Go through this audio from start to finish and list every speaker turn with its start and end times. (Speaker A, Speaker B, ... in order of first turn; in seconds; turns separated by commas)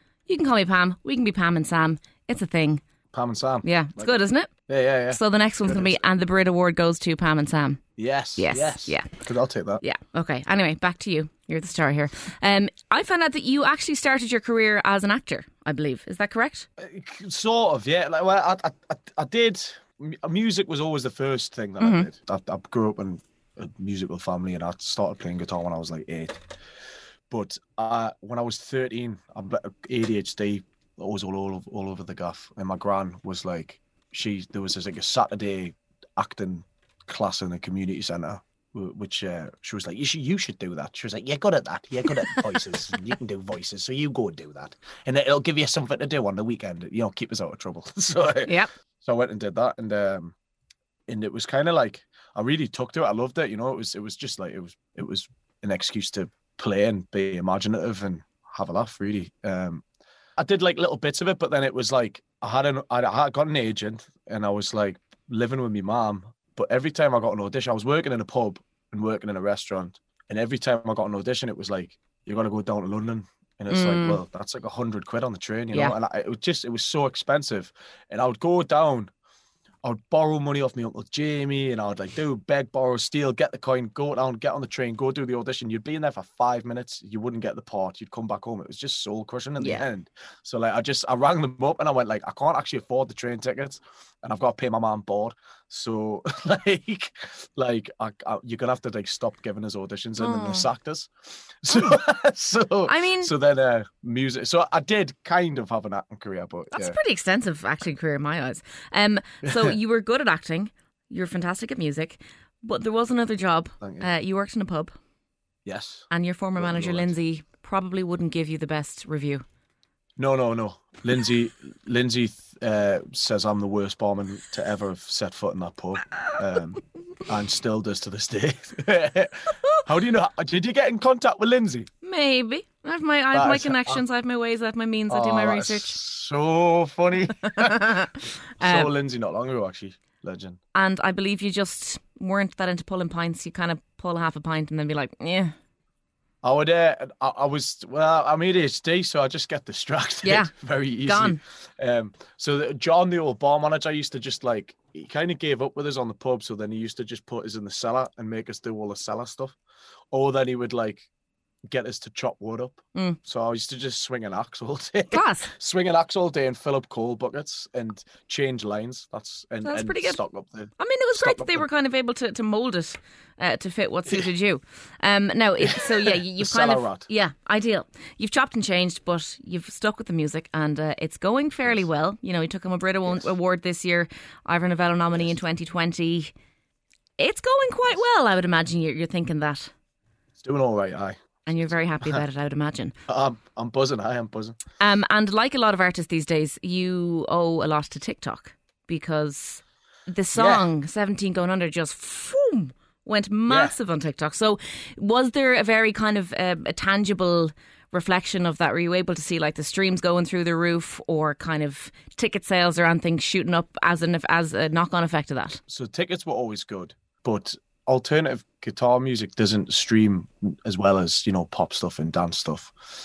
Speaker A: 0.3-2.8, Speaker B: 3.1-4.1, Speaker A: 3.6-4.5, Speaker B: 4.7-6.0, Speaker A: 5.1-7.8, Speaker B: 8.0-9.8, Speaker A: 8.4-9.1, Speaker A: 9.8-16.7, Speaker B: 16.8-26.4, Speaker A: 21.8-22.1, Speaker B: 27.3-50.3, Speaker B: 51.1-59.8, Speaker B: 60.4-79.1, Speaker A: 73.7-74.2, Speaker B: 79.8-107.0, Speaker A: 89.6-89.9, Speaker A: 100.2-100.7, Speaker A: 102.9-103.3, Speaker A: 106.7-115.0, Speaker B: 109.4-109.8, Speaker B: 113.8-114.1, Speaker B: 115.6-117.1, Speaker A: 116.1-119.4, Speaker B: 120.2-131.9, Speaker A: 132.0-136.0, Speaker B: 133.3-134.0, Speaker B: 135.1-138.1, Speaker A: 137.5-138.9, Speaker B: 138.6-140.6, Speaker A: 140.8-145.5, Speaker B: 146.4-159.6, Speaker A: 150.2-150.5, Speaker A: 151.0-151.4, Speaker B: 160.1-161.1, Speaker B: 161.7-171.7, Speaker A: 165.1-165.5, Speaker A: 169.6-170.2, Speaker A: 170.8-186.3, Speaker B: 175.6-177.1, Speaker A: 187.2-189.7, Speaker B: 190.4-192.2, Speaker A: 191.4-192.9, Speaker B: 193.1-194.6, Speaker A: 194.8-215.6, Speaker B: 200.3-200.7, Speaker B: 203.5-203.8, Speaker B: 215.7-222.7